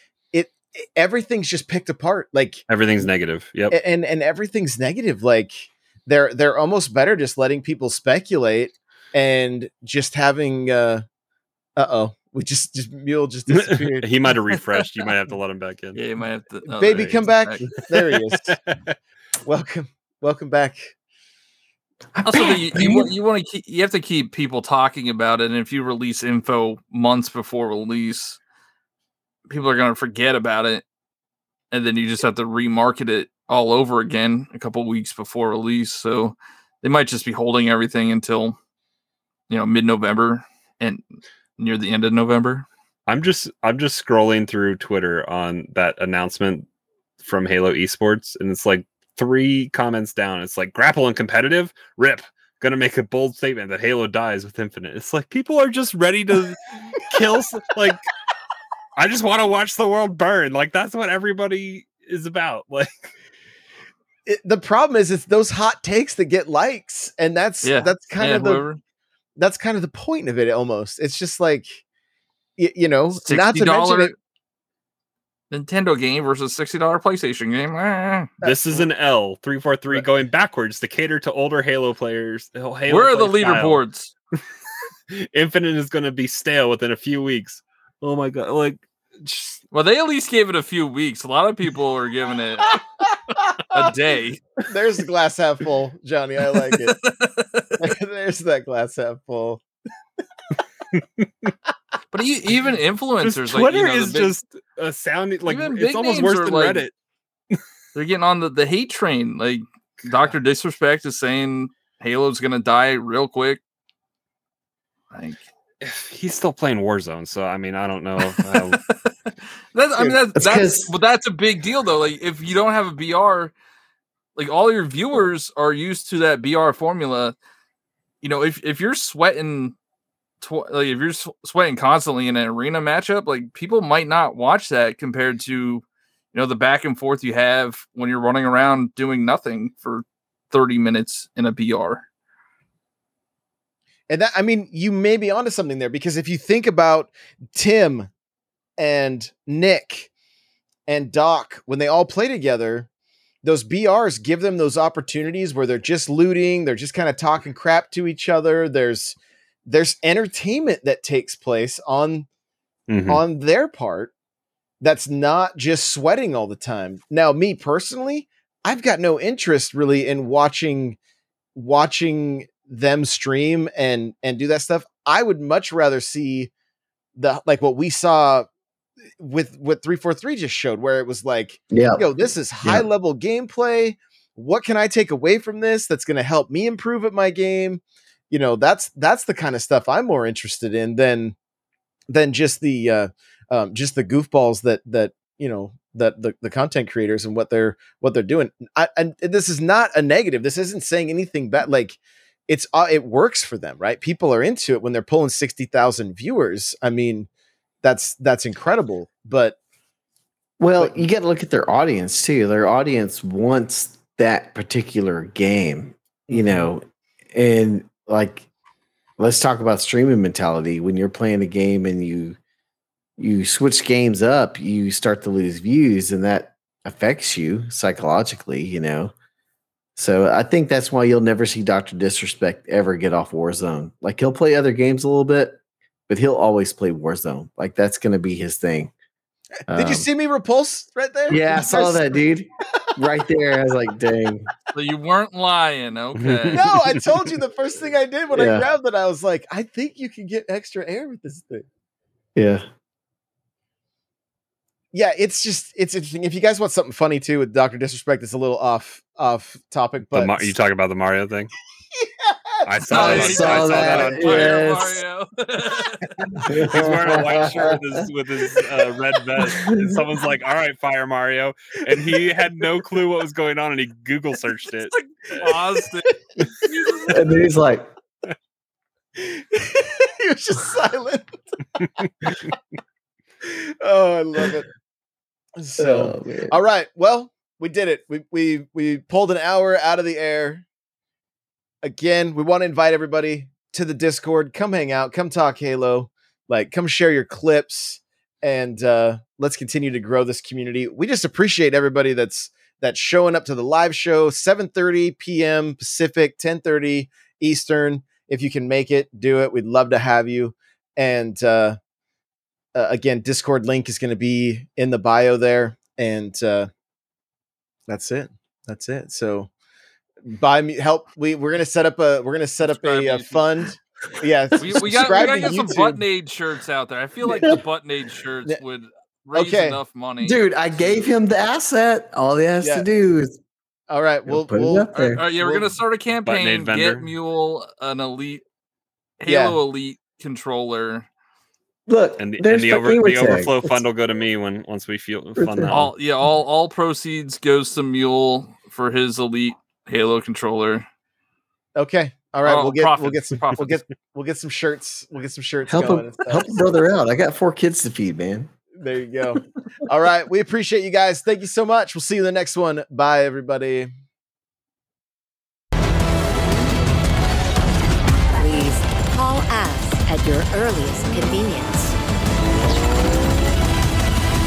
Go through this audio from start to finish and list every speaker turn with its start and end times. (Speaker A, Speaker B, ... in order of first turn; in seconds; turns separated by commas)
Speaker A: 0.3-2.6, Speaker B: 2.7-3.8, Speaker A: 3.7-11.0, Speaker A: 11.8-14.1, Speaker B: 13.5-16.0, Speaker C: 15.9-17.6, Speaker A: 16.6-18.6, Speaker A: 19.4-20.9, Speaker D: 22.1-23.1, Speaker C: 22.2-28.4, Speaker C: 29.5-30.8, Speaker C: 31.7-38.6, Speaker C: 39.5-41.0, Speaker C: 41.6-42.6, Speaker B: 43.1-46.7, Speaker B: 47.2-58.0, Speaker B: 59.0-63.1, Speaker A: 64.2-68.7, Speaker C: 67.6-68.8, Speaker A: 69.4-71.8, Speaker A: 72.6-74.1, Speaker C: 73.1-74.1, Speaker C: 75.5-78.3, Speaker A: 78.4-78.9, Speaker B: 78.4-83.8, Speaker C: 82.9-84.1, Speaker B: 85.1-89.6, Speaker C: 89.7-92.9, Speaker C: 93.7-94.4, Speaker A: 94.7-97.0, Speaker C: 96.7-97.8, Speaker A: 97.8-99.6, Speaker C: 102.1-104.3, Speaker B: 103.2-106.9, Speaker C: 105.5-106.9, Speaker C: 107.9-113.6, Speaker C: 115.1-115.4, Speaker B: 115.8-118.8, Speaker C: 118.2-119.1, Speaker C: 119.7-123.5, Speaker D: 120.3-120.9, Speaker C: 124.3-127.3, Speaker C: 128.2-129.7, Speaker C: 130.4-142.0, Speaker A: 144.1-148.1, Speaker A: 148.8-150.1, Speaker A: 150.9-152.9, Speaker A: 153.4-162.3, Speaker B: 162.9-163.2, Speaker A: 163.1-164.1, Speaker A: 164.8-171.0, Speaker A: 171.5-176.5, Speaker A: 177.2-178.5, Speaker A: 179.2-191.3, Speaker D: 181.7-182.0, Speaker A: 192.1-207.3, Speaker A: 207.8-209.6, Speaker D: 210.6-218.5, Speaker A: 216.3-216.7, Speaker D: 219.2-222.4, Speaker D: 223.2-229.1, Speaker D: 230.0-235.6, Speaker D: 236.1-238.9, Speaker D: 239.7-240.1, Speaker A: 239.7-242.1, Speaker D: 241.3-244.5, Speaker C: 244.7-246.7, Speaker B: 246.2-246.6, Speaker A: 246.5-251.7, Speaker D: 248.3-248.7, Speaker D: 252.3-252.6, Speaker A: 254.9-260.5, Speaker B: 260.1-261.5, Speaker A: 262.0-262.6, Speaker B: 262.6-264.6, Speaker C: 262.9-266.1, Speaker D: 262.9-265.0, Speaker D: 266.4-267.8, Speaker B: 266.7-275.6, Speaker D: 269.4-270.0, Speaker C: 274.8-277.2, Speaker A: 276.4-276.7, Speaker D: 277.1-277.9, Speaker A: 279.2-281.4, Speaker A: 283.4-284.7, Speaker A: 285.6-290.6, Speaker D: 285.8-286.6, Speaker A: 291.8-311.8, Speaker A: 312.7-316.7, Speaker A: 317.9-319.5, Speaker A: 320.2-326.0, Speaker C: 322.6-323.4, Speaker C: 324.6-331.0, Speaker D: 324.8-325.5, Speaker D: 327.2-327.6, Speaker A: 329.3-329.8, Speaker D: 330.2-333.4, Speaker A: 332.6-332.9, Speaker A: 333.9-335.7, Speaker D: 334.2-335.2, Speaker C: 334.9-338.4, Speaker B: 336.2-337.1, Speaker C: 339.2-341.1, Speaker A: 339.2-339.6, Speaker D: 341.9-343.8, Speaker B: 342.2-345.9, Speaker D: 345.4-345.9, Speaker C: 345.7-350.9, Speaker A: 351.8-356.6, Speaker C: 352.4-353.8, Speaker D: 355.7-358.5, Speaker A: 358.8-363.9, Speaker E: 368.3-371.9